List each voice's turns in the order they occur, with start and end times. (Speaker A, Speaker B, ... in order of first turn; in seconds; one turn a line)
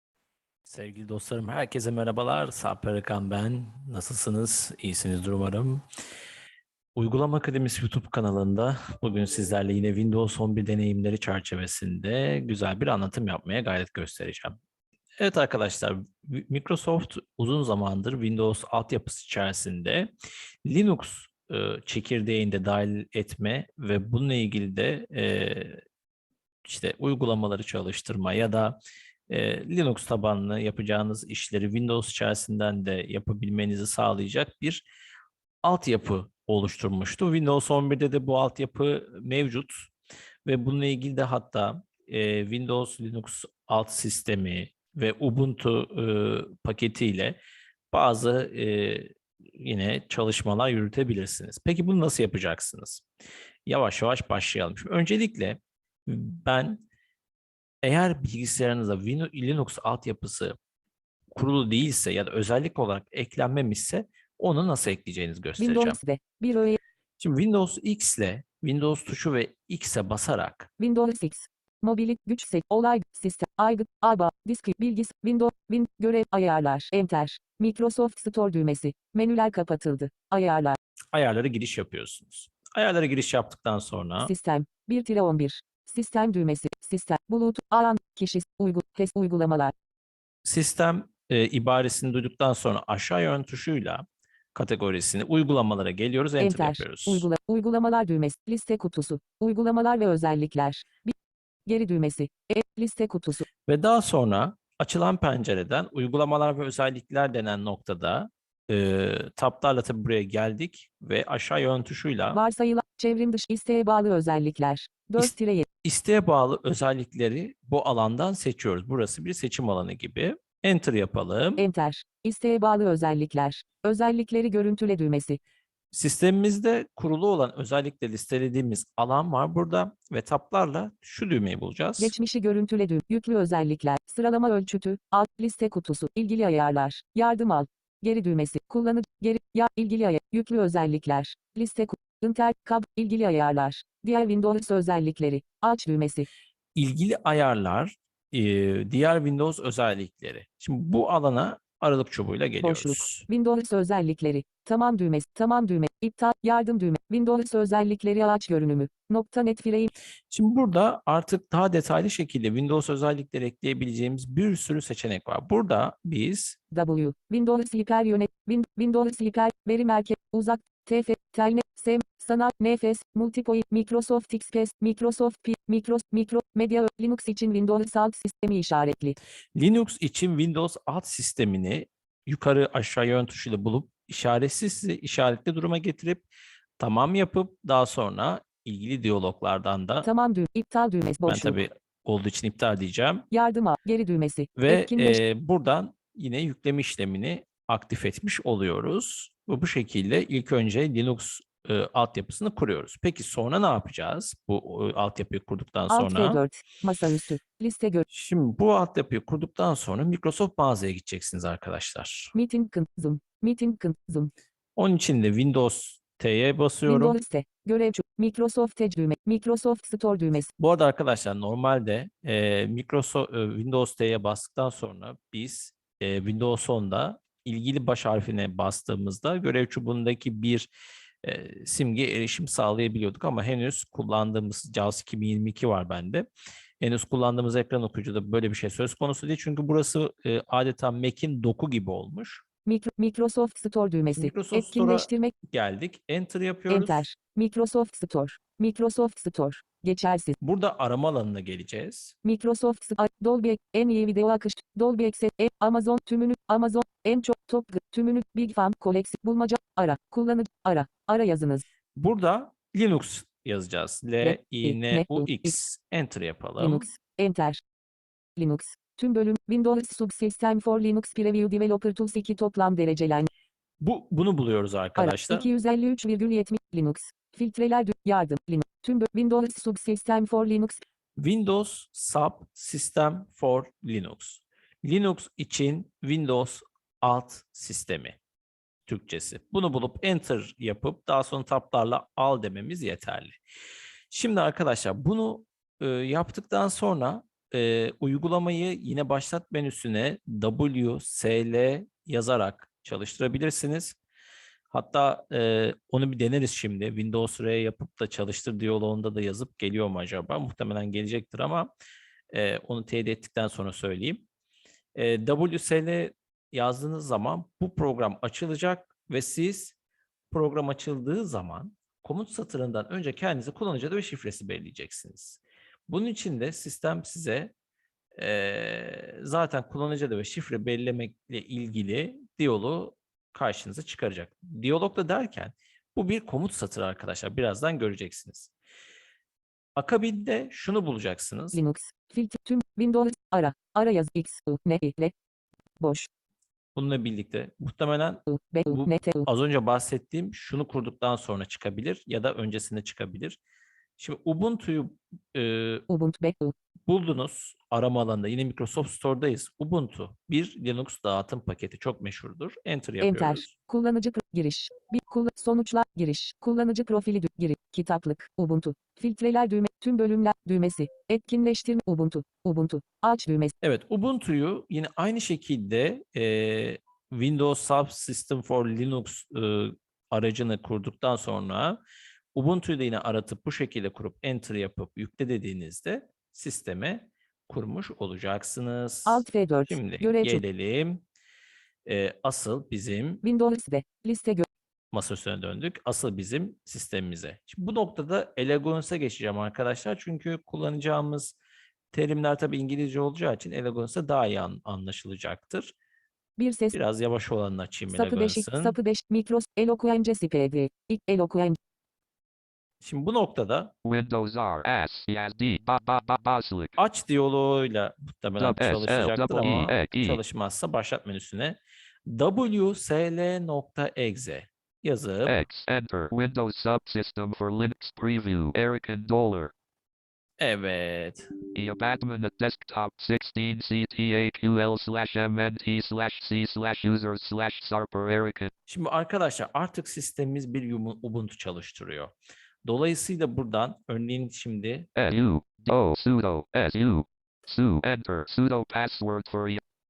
Speaker A: 0.6-5.8
Speaker A: 7.0-14.6
Speaker A: 15.2-20.1
Speaker A: 20.6-25.8
Speaker A: 26.6-34.9
Speaker A: 35.6-39.9
Speaker A: 40.4-47.4
Speaker A: 47.9-53.0
Speaker A: 53.6-56.8
Speaker A: 57.8-60.5
Speaker A: 61.3-66.0
Speaker B: 65.6-66.8
Speaker A: 67.2-70.7
Speaker B: 70.8-80.8
Speaker A: 81.1-84.3
Speaker B: 84.2-89.7
Speaker A: 90.4-97.3
Speaker B: 96.4-101.1
Speaker B: 101.7-103.5
Speaker A: 103.7-112.4
Speaker B: 112.3-115.7
Speaker A: 115.2-121.6
Speaker B: 121.6-125.4
Speaker A: 125.9-132.1
Speaker B: 132.0-146.3
Speaker A: 146.7-153.3
Speaker B: 152.6-159.9
Speaker A: 160.3-166.6
Speaker B: 166.7-179.2
Speaker A: 179.5-186.3
Speaker A: 186.8-190.1
Speaker B: 190.0-191.6
Speaker A: 191.2-193.3
Speaker B: 193.3-195.2
Speaker A: 194.6-206.4
Speaker B: 205.9-208.1
Speaker A: 208.1-212.3
Speaker B: 212.3-214.3
Speaker A: 214.8-217.2
Speaker B: 216.8-220.5
Speaker A: 220.6-230.7
Speaker A: 231.2-236.3
Speaker A: 236.8-242.4
Speaker B: 242.6-245.3
Speaker A: 244.1-247.0
Speaker B: 246.7-250.4
Speaker A: 250.4-252.1
Speaker B: 252.2-261.6
Speaker A: 261.9-266.9
Speaker B: 264.2-265.5
Speaker B: 266.6-267.6
Speaker B: 268.4-273.3
Speaker A: 273.8-275.5
Speaker B: 275.0-280.8
Speaker A: 281.2-288.2
Speaker A: 288.9-293.4
Speaker A: 294.1-304.0
Speaker A: 304.7-311.7
Speaker A: 312.3-314.2
Speaker A: 314.9-319.7
Speaker A: 320.3-327.5
Speaker A: 328.1-338.5
Speaker A: 339.8-341.6
Speaker B: 341.5-345.1
Speaker B: 345.8-346.1
Speaker A: 346.7-353.4
Speaker B: 348.3-349.3
Speaker A: 354.0-355.9
Speaker B: 355.9-356.5
Speaker A: 356.9-363.5
Speaker B: 363.0-373.5
Speaker A: 373.6-381.8
Speaker A: 382.3-391.0
Speaker B: 389.1-390.4
Speaker A: 391.8-393.2
Speaker B: 393.2-394.5
Speaker A: 394.9-401.4
Speaker A: 401.9-405.7
Speaker B: 406.4-406.7
Speaker A: 406.7-408.8
Speaker B: 407.9-411.6
Speaker A: 412.8-413.7
Speaker C: 413.8-416.8
Speaker A: 416.8-425.4
Speaker C: 418.4-420.2
Speaker C: 425.2-429.5
Speaker A: 430.4-431.3
Speaker C: 431.5-438.5
Speaker A: 438.7-442.1
Speaker A: 442.6-444.9
Speaker C: 444.9-449.6